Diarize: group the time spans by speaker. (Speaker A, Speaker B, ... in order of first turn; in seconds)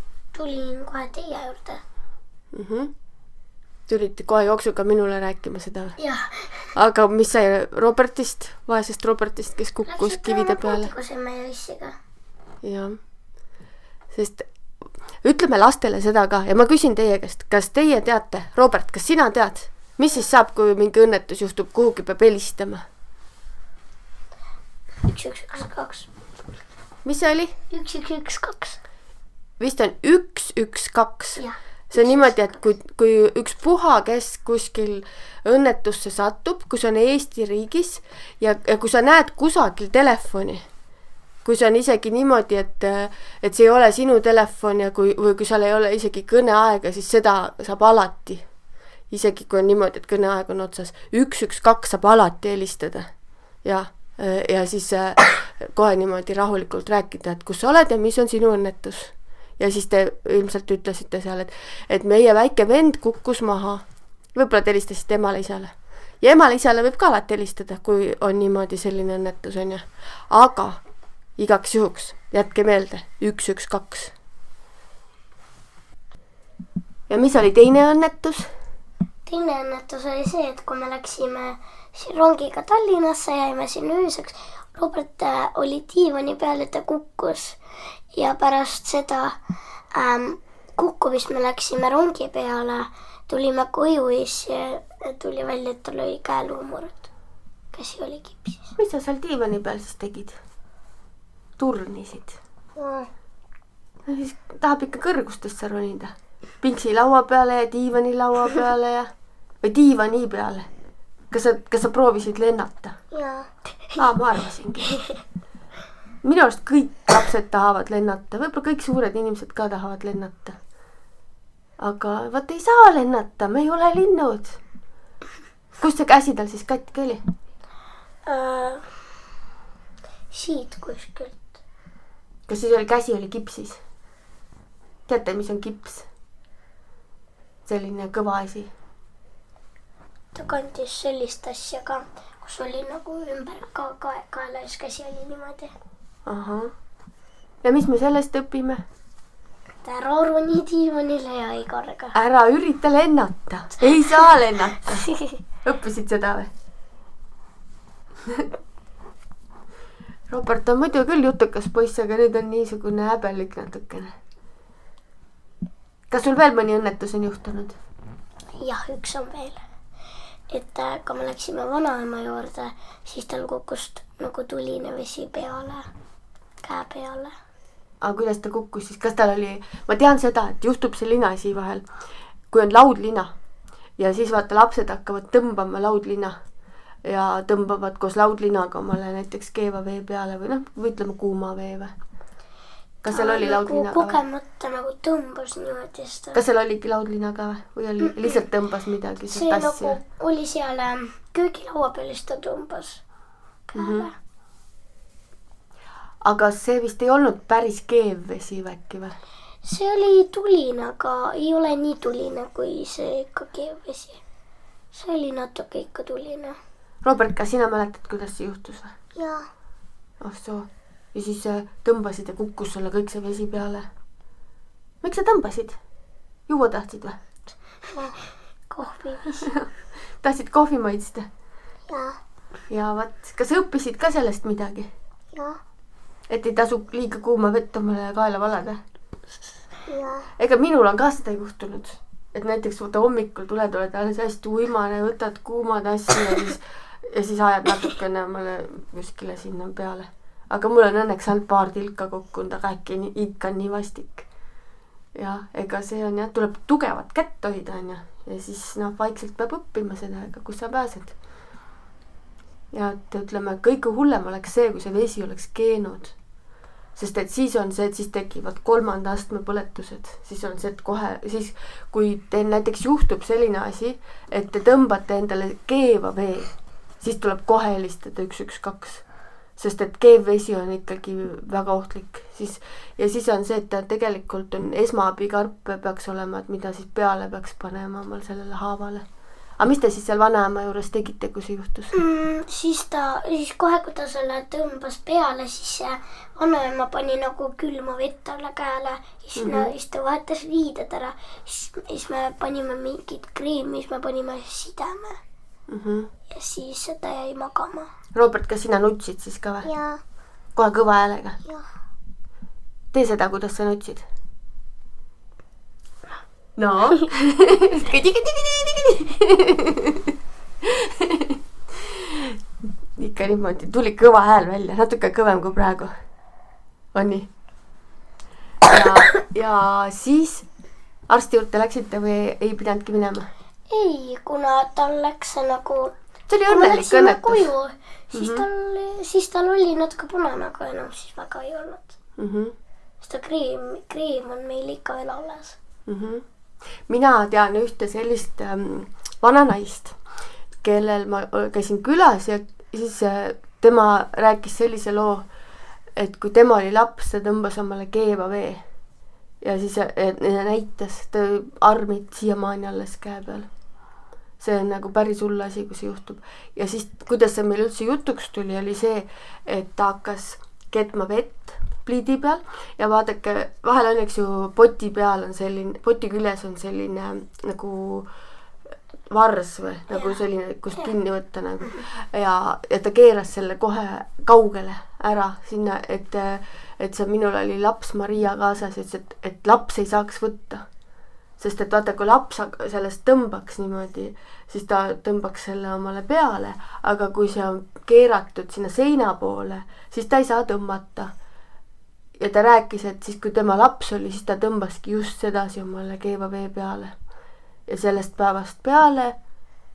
Speaker A: 0.3-1.8, 6.0-6.7, 9.9-12.0, 25.0-26.1, 27.7-28.8, 31.4-32.6, 79.3-87.6, 88.1-89.4, 89.9-97.1, 97.7-98.7, 102.8-103.1, 113.1-113.5, 128.3-128.8, 130.3-131.4, 140.3-145.7, 149.8-152.2, 155.1-155.4, 168.6-169.6, 170.5-175.8, 176.6-177.3, 193.1-196.4, 198.0-198.4, 199.3-203.0, 203.7-204.2, 209.6-214.2, 214.9-216.6, 219.2-219.5, 227.9-229.5, 231.9-232.2, 235.3-235.6, 239.9-240.2, 291.9-305.2, 306.3-307.9, 309.6-310.0, 333.7-335.9, 336.5-341.9, 343.0-345.6, 379.9-380.2
Speaker B: 2.5-2.9, 3.9-6.0, 6.8-10.9, 12.6-13.0, 14.1-14.5, 15.2-22.9, 27.1-27.6, 29.6-40.6, 41.5-48.4, 49.1-53.1, 53.6-63.8, 64.3-70.8, 71.4-74.1, 77.1-78.5, 98.8-100.4, 101.6-102.4, 104.1-109.1, 109.6-110.7, 111.3-113.0, 114.0-115.0, 116.2-120.6, 121.8-124.6, 125.8-127.2, 132.5-133.8, 135.1-136.1, 137.7-138.7, 146.3-146.7, 147.6-148.8, 152.1-155.1, 155.6-156.5, 160.3-164.1, 166.1-167.8, 178.0-181.9, 182.5-183.3, 184.0-186.4, 187.1-191.9, 193.0-194.2, 196.3-200.0, 203.8-204.1, 206.2-209.2, 217.0-218.9, 220.2-223.9, 225.0-225.8, 226.5-227.2, 229.4-229.7, 230.2-231.3, 232.7-234.9, 236.3-238.8, 240.4-254.3, 255.2-261.1, 262.7-266.1, 267.0-279.0, 279.6-289.1, 289.6-291.9, 299.4-299.7, 305.7-306.1, 308.1-309.7, 310.6-311.4, 312.9-314.0, 316.6-320.1, 320.6-322.4, 323.0-325.9, 326.9-327.3, 328.6-330.5, 331.1-333.3, 336.3-337.5, 338.1-338.4, 342.2-342.5, 345.9-346.2, 346.9-350.0, 350.6-355.3, 356.0-358.6, 359.4-363.5, 364.4-378.1, 379.1-390.6, 391.4-401.1, 402.2-406.9, 407.7-409.2